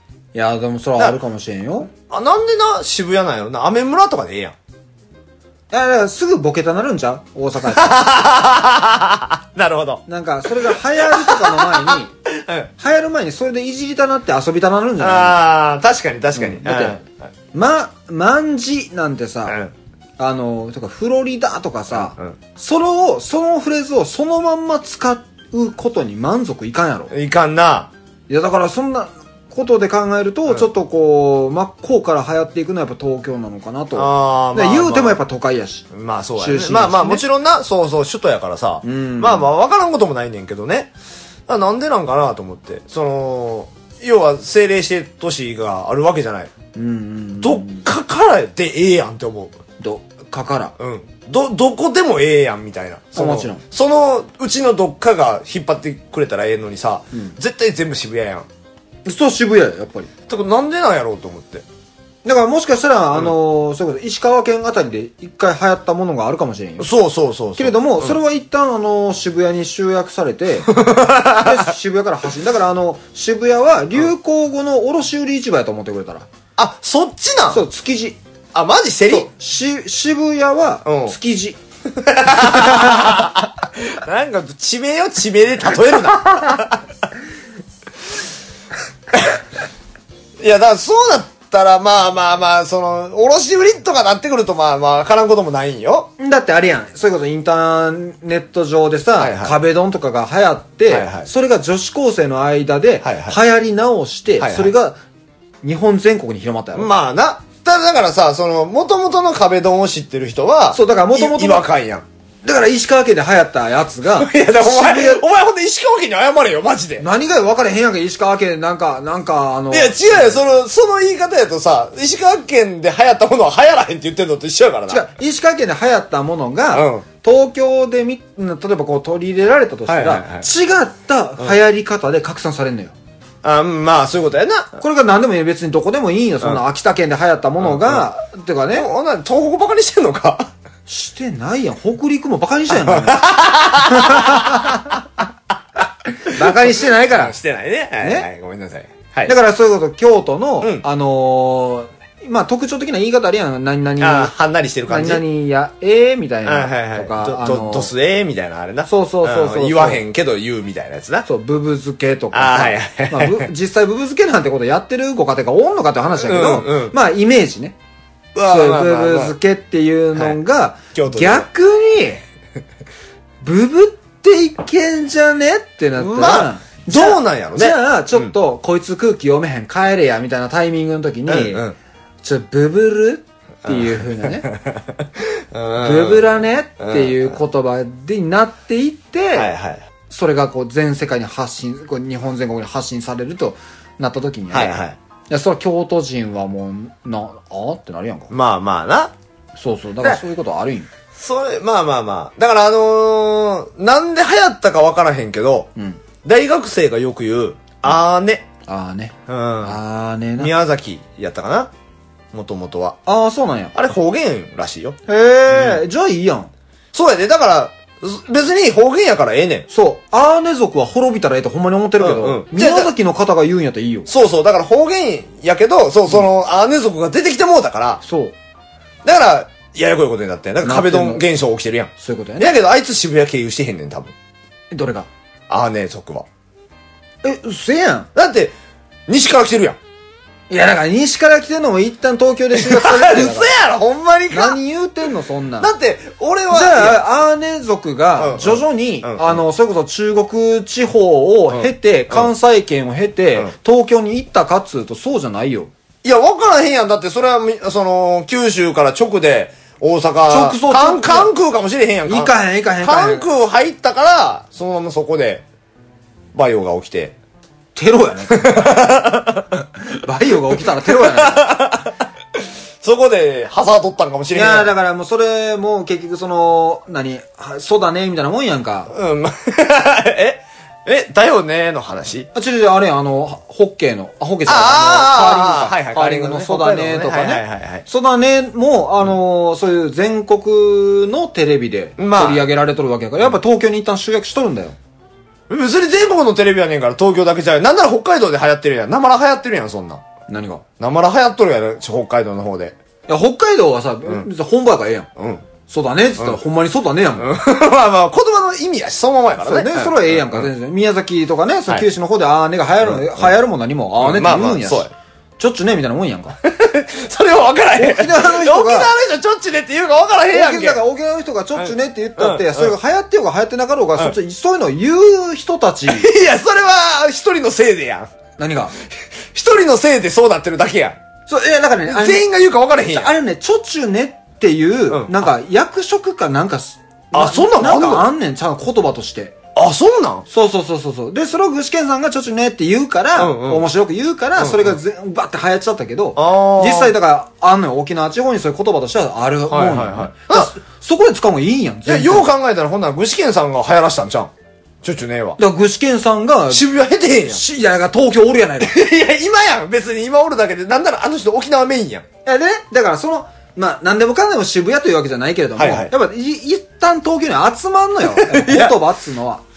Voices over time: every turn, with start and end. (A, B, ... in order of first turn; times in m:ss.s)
0:00.3-0:01.9 A
0:02.0-0:04.6 B
0:05.7-0:08.0 A
0:07.7-0:12.7 B
0:10.1-0:12.1 A
0:12.8-0:15.4 A
0:15.0-0:17.2 B
0:16.3-0:17.0 A
0:17.5-0:19.6 A
0:19.5-0:19.7 B
0:20.2-0:27.1 A
0:21.9-0:22.4 B
0:27.1-0:27.9 B
0:28.3-0:37.2 A
0:33.9-0:35.2 B
0:35.9-0:40.9 B
0:38.8-0:39.5 A
0:41.5-0:46.5 B
0:46.7-0:47.8 A
0:47.4-0:49.6 B
0:49.8-0:50.7 A
0:50.8-0:58.5 B
0:53.1-0:53.6 A
0:59.0-1:00.1 A
1:00.3-1:01.6 B
1:02.2-1:06.9 A
1:06.8-1:08.2 B
1:07.6-1:16.3 A
1:10.7-1:11.6 B
1:16.6-1:17.6 B
1:17.5-1:18.2 A
1:18.5-1:19.3 B
1:19.1-1:21.6 A
1:20.8-1:21.1 B
1:21.9-1:26.8 B
1:22.4-1:23.2 A
1:29.1-1:29.4 B
1:30.4-1:36.1 B
1:36.2-1:45.0 A
1:39.2-1:39.6 B
1:40.9-1:41.3 B
1:43.0-1:43.4 B
1:44.4-1:44.7 B
1:45.6-1:46.9 A
1:46.7-1:52.0 B
1:50.7-1:51.6 A
1:52.4-1:55.2 A
1:54.1-1:57.0 B
1:57.0-2:00.4 A
1:59.7-2:05.0 B
2:04.9-2:12.9 A
2:06.7-2:07.0 B
2:09.9-2:10.5 B
2:13.4-2:14.8 B
2:14.8-2:18.9 A
2:17.6-2:18.0 B
2:18.7-2:20.5 B
2:20.9-2:24.9 A
2:22.7-2:25.2 B
2:26.2-2:27.3 A
2:26.3-2:29.3 B
2:28.0-2:28.3 A
2:29.2-2:34.3 A
2:34.0-2:35.2 B
2:34.9-2:37.9 A
2:36.4-2:41.2 B
2:38.9-2:40.0 A
2:41.2-2:47.8 A
2:42.3-2:43.5 B
2:46.2-2:46.9 B
2:48.3-2:49.3 B
2:48.4-2:52.2 A
2:50.9-2:51.5 B
2:53.4-3:01.6 A
2:56.0-2:58.3 B
3:01.3-3:01.7 B
3:02.2-3:04.5 A
3:03.6-3:07.3 B
3:05.8-3:09.5 A
3:09.3-3:09.8 B
3:10.1-3:18.3 A
3:14.5-3:15.0 B
3:18.3-3:19.1 B
3:19.6-3:20.9 A
3:21.2-3:25.7 B
3:25.8-3:26.0 A
3:26.2-3:28.5 B
3:28.7-3:30.5 A
3:29.3-3:29.8 B
3:30.4-3:31.7 B
3:32.3-3:33.0 B
3:33.0-3:33.7 A
3:33.7-3:35.0 B
3:35.1-3:36.5 A
3:35.5-3:35.8 B
3:36.9-3:39.6 B
3:39.7-3:44.1 A
3:42.0-3:42.9 B
3:44.1-3:48.0 B
3:48.0-3:48.3 A
3:49.0-3:54.1 B
3:50.6-3:51.2 A
3:52.0-3:52.5 A
3:54.7-3:55.1 A
3:55.5-3:56.2 B
3:57.2-3:58.1 A
3:58.1-3:58.5 B
3:59.1-3:59.8 B
4:00.5-4:03.5 A
4:02.5-4:04.6 B
4:04.3-4:05.7 A
4:05.6-4:07.0 B
4:06.5-4:15.7 A
4:08.2-4:09.4 B
4:11.5-4:12.3 B
4:16.0-4:25.4 B
4:20.3-4:21.3 A
4:22.0-4:23.3 A
4:26.3-4:27.1 B
4:27.7-4:28.8 A
4:28.3-4:29.5 B
4:29.8-4:31.5 A
4:30.8-4:34.7 B
4:34.3-4:38.9 A
4:38.9-4:42.3 B
4:42.3-4:54.8 A
4:44.4-4:47.8 B
4:52.0-4:52.4 B
4:55.5-5:00.0 B
5:00.3-5:00.6 A
5:00.8-5:02.8 B
5:03.1-5:05.1 A
5:05.2-5:05.4 B
5:05.7-5:07.3 A
5:07.2-5:10.5 B
5:09.4-5:14.9 A
5:12.8-5:13.3 B
5:14.0-5:14.9 B
5:15.4-5:16.4 A
5:16.4-5:20.8 B
5:17.8-5:18.9 A
5:20.3-5:26.1 A
5:21.6-5:22.7 B
5:25.9-5:28.1 B
5:28.4-5:28.7 A
5:29.3-5:31.0 B
5:31.3-5:32.2 A
5:31.9-5:33.1 B
5:32.9-5:39.3 A
5:34.9-5:35.2 B
5:37.1-5:38.1 B
5:39.5-5:40.2 B
5:40.3-5:52.3 A
5:43.2-5:43.7 B
5:44.4-5:44.8 B
5:46.2-5:46.9 B
5:49.5-5:50.5 B
5:51.8-5:54.3 B
5:54.8-5:55.4 B
5:55.4-5:56.6 A
5:56.5-5:57.4 B
5:57.3-5:58.8 A
5:58.6-6:02.0 B
6:02.2-6:09.4 A
6:05.6-6:05.9 B
6:08.0-6:08.8 B